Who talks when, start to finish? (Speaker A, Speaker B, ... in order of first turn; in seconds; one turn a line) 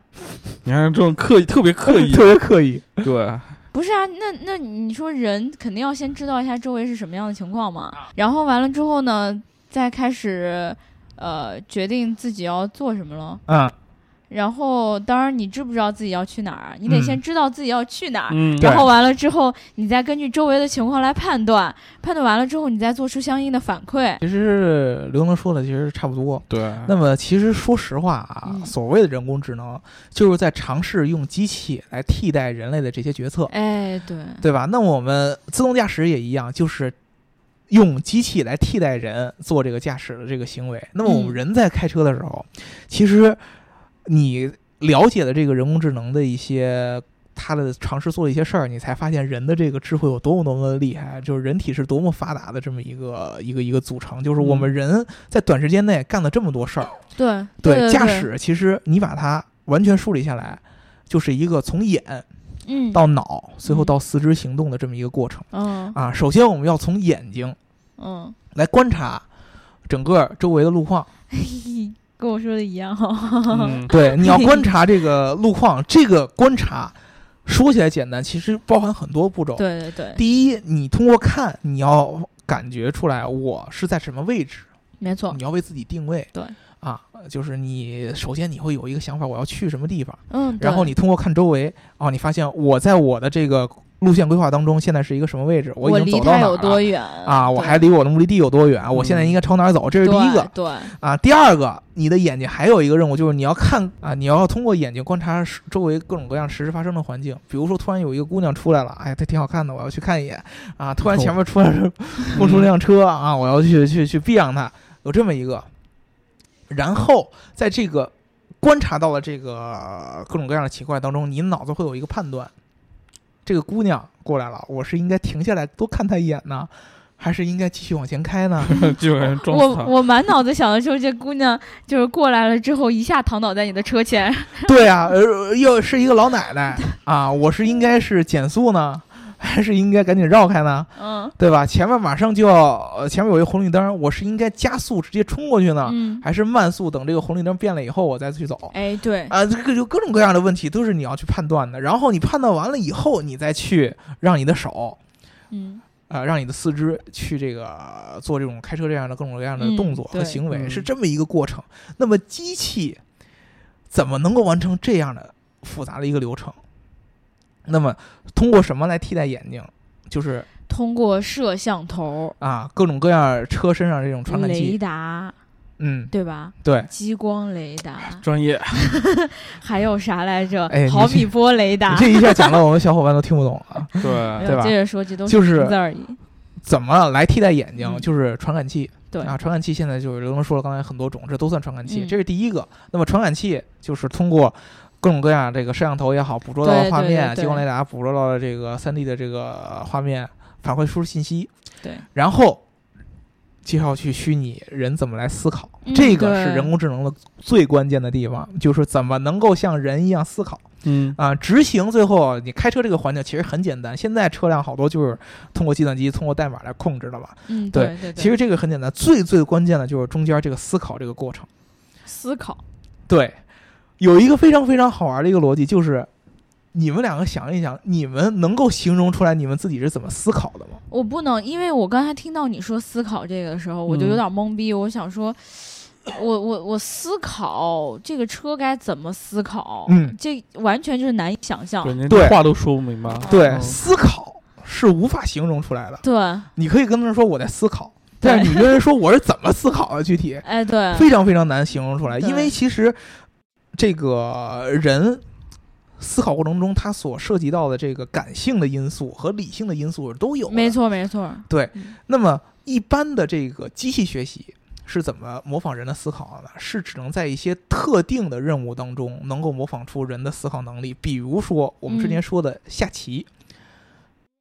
Speaker A: 0.6-2.4
Speaker B: 1.8-3.1
Speaker A: 3.0-3.6
Speaker C: 3.7-13.4
Speaker B: 13.5-13.7
Speaker C: 14.3-24.2
Speaker B: 16.9-17.2
Speaker A: 18.3-18.8
Speaker B: 18.6-18.9
Speaker B: 24.2-33.5
Speaker A: 26.5-26.9
Speaker C: 28.4-28.7
Speaker C: 33.5-34.4
Speaker B: 34.4-37.0
Speaker B: 37.7-43.4
Speaker C: 41.0-41.4
Speaker B: 44.0-57.0
Speaker A: 54.4-54.7
Speaker C: 57.1-58.3
Speaker B: 57.6-62.3
Speaker C: 62.6-63.0
Speaker B: 62.9-67.6
Speaker C: 63.7-63.9
Speaker C: 65.5-66.0
Speaker C: 68.0-68.3
Speaker B: 68.5-69.2
Speaker B: 69.9-71.1
Speaker C: 71.3-74.7
Speaker A: 73.5-73.9
Speaker B: 73.9-79.6
Speaker C: 79.6-80.2
Speaker B: 80.2-84.7
Speaker C: 85.0-85.4
Speaker B: 85.3-115.7
Speaker C: 90.3-90.9
Speaker C: 95.8-97.8
Speaker A: 98.9-99.4
Speaker C: 100.0-101.0
Speaker A: 111.0-111.3
Speaker A: 112.3-112.7
Speaker B: 116.7-122.5
Speaker B: 123.5-128.7
Speaker A: 128.7-129.9
Speaker C: 129.4-134.7
Speaker B: 134.6-148.8
Speaker C: 141.0-141.3
Speaker C: 145.8-146.2
Speaker C: 148.7-149.3
Speaker B: 149.3-155.0
Speaker C: 155.5-155.8
Speaker B: 156.1-163.0
Speaker C: 159.6-160.4
Speaker A: 160.5-160.9
Speaker B: 163.9-166.6
Speaker B: 167.7-170.5
Speaker C: 170.7-172.4
Speaker B: 172.4-174.8
Speaker C: 174.3-175.4
Speaker B: 175.8-176.1
Speaker C: 176.1-178.2
Speaker B: 176.6-176.9
Speaker A: 178.2-178.9
Speaker C: 178.8-182.6
Speaker B: 180.7-181.3
Speaker B: 181.8-185.8
Speaker A: 184.0-184.5
Speaker C: 184.4-186.2
Speaker B: 186.6-201.5
Speaker C: 187.8-188.1
Speaker C: 191.9-192.2
Speaker C: 196.6-197.6
Speaker B: 202.1-202.6
Speaker B: 203.7-221.5
Speaker C: 205.8-206.7
Speaker A: 210.8-211.2
Speaker C: 217.5-218.3
Speaker C: 222.1-222.6
Speaker B: 223.1-223.4
Speaker B: 224.0-226.1
Speaker B: 226.7-230.8
Speaker C: 230.9-242.0
Speaker A: 233.9-234.2
Speaker B: 239.9-240.2
Speaker A: 241.8-243.8
Speaker B: 242.1-242.4
Speaker C: 243.1-243.6
Speaker B: 243.2-246.0
Speaker C: 246.0-246.5
Speaker B: 246.6-253.0
Speaker C: 248.2-248.7
Speaker C: 250.4-251.1
Speaker C: 252.2-252.5
Speaker B: 253.7-255.2
Speaker B: 256.0-260.8
Speaker C: 260.5-261.9
Speaker B: 261.5-273.3
Speaker C: 271.9-272.2